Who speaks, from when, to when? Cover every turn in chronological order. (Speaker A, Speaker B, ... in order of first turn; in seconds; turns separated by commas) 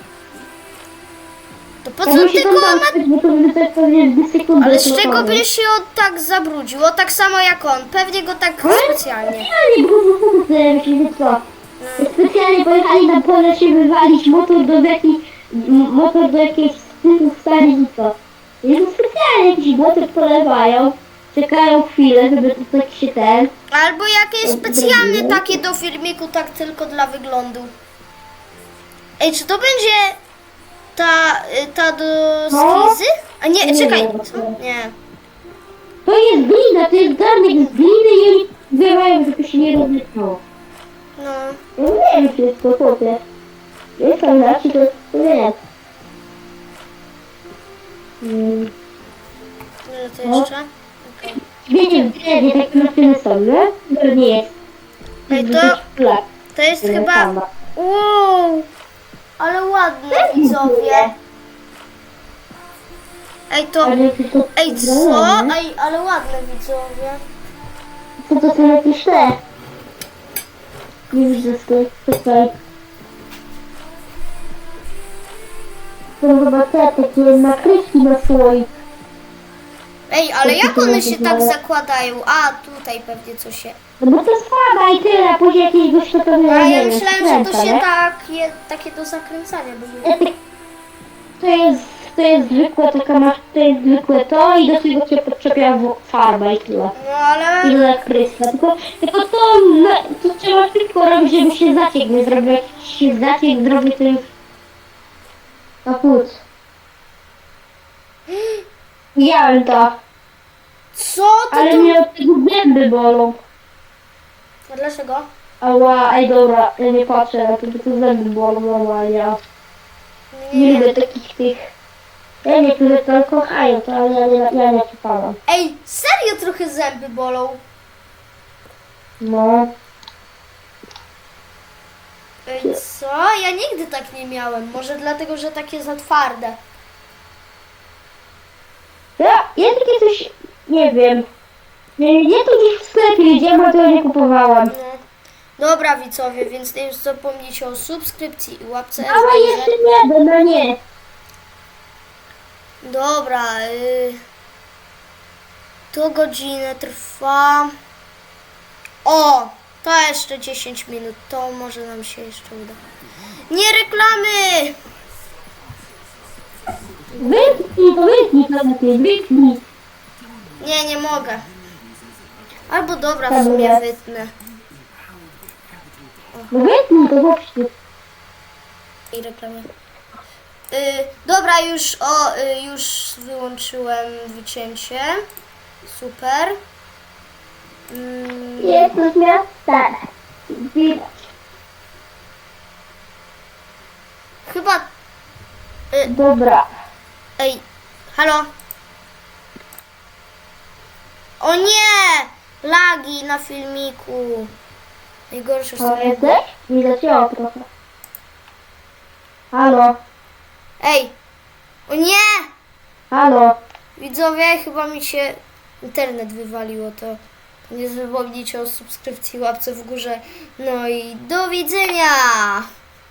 Speaker A: 1.8-3.0, Speaker B: 2.0-5.4, Speaker A: 4.6-9.5, Speaker B: 8.6-11.4, Speaker A: 11.8-12.2, Speaker B: 12.0-23.5, Speaker A: 23.7-27.7, Speaker B: 24.4-25.6, Speaker A: 29.2-30.2, Speaker A: 30.9-34.9, Speaker B: 32.5-33.0, Speaker B: 33.6-34.5, Speaker B: 36.0-40.4, Speaker A: 41.2-41.6, Speaker B: 41.8-43.2, Speaker B: 44.0-45.5, Speaker B: 48.2-48.7, Speaker A: 49.9-51.4, Speaker B: 51.6-54.5, Speaker A: 51.9-52.5, Speaker A: 55.3-55.8, Speaker B: 55.3-56.2, Speaker A: 56.5-58.7, Speaker B: 56.8-57.5, Speaker A: 59.4-61.1, Speaker B: 60.1-61.1, Speaker A: 63.5-63.9, Speaker B: 63.8-65.5, Speaker A: 64.5-67.2, Speaker B: 68.2-69.4, Speaker B: 71.1-72.5, Speaker B: 76.2-78.7, Speaker A: 80.1-83.8, Speaker B: 80.4-81.5, Speaker B: 84.0-87.8, Speaker A: 86.5-90.2, Speaker B: 90.0-90.3, Speaker B: 91.4-96.9, Speaker A: 96.9-97.8, Speaker B: 97.6-104.3, Speaker B: 105.8-106.4, Speaker A: 108.3-108.6, Speaker B: 109.1-110.0, Speaker A: 110.9-112.0, Speaker B: 111.5-113.4, Speaker A: 114.7-115.3, Speaker B: 115.6-119.4, Speaker A: 120.3-121.0, Speaker B: 120.5-121.7, Speaker B: 122.4-125.4, Speaker A: 125.5-127.6, Speaker B: 129.2-129.7, Speaker A: 132.4-136.6, Speaker B: 139.2-141.3, Speaker B: 142.0-144.7, Speaker A: 144.7-145.0, Speaker A: 145.6-149.8, Speaker B: 149.0-150.8, Speaker A: 152.8-154.2, Speaker A: 155.9-157.7, Speaker A: 159.0-162.8, Speaker A: 163.5-164.8, Speaker A: 167.1-167.6, Speaker B: 167.2-169.6, Speaker A: 170.6-171.5, Speaker A: 172.7-174.3, Speaker B: 173.2-173.8, Speaker B: 176.5-177.7, Speaker A: 179.1-179.7, Speaker A: 180.7-185.2, Speaker A: 185.8-186.6, Speaker A: 187.9-189.0, Speaker B: 188.6-189.9, Speaker B: 190.5-191.1, Speaker A: 194.4-194.9, Speaker B: 196.0-196.7, Speaker A: 197.4-198.5, Speaker A: 201.4-204.5, Speaker A: 205.3-206.5, Speaker B: 205.8-207.7, Speaker B: 209.5-210.0, Speaker A: 210.8-211.1, Speaker A: 211.9-212.5, Speaker B: 213.1-213.6, Speaker A: 213.9-222.7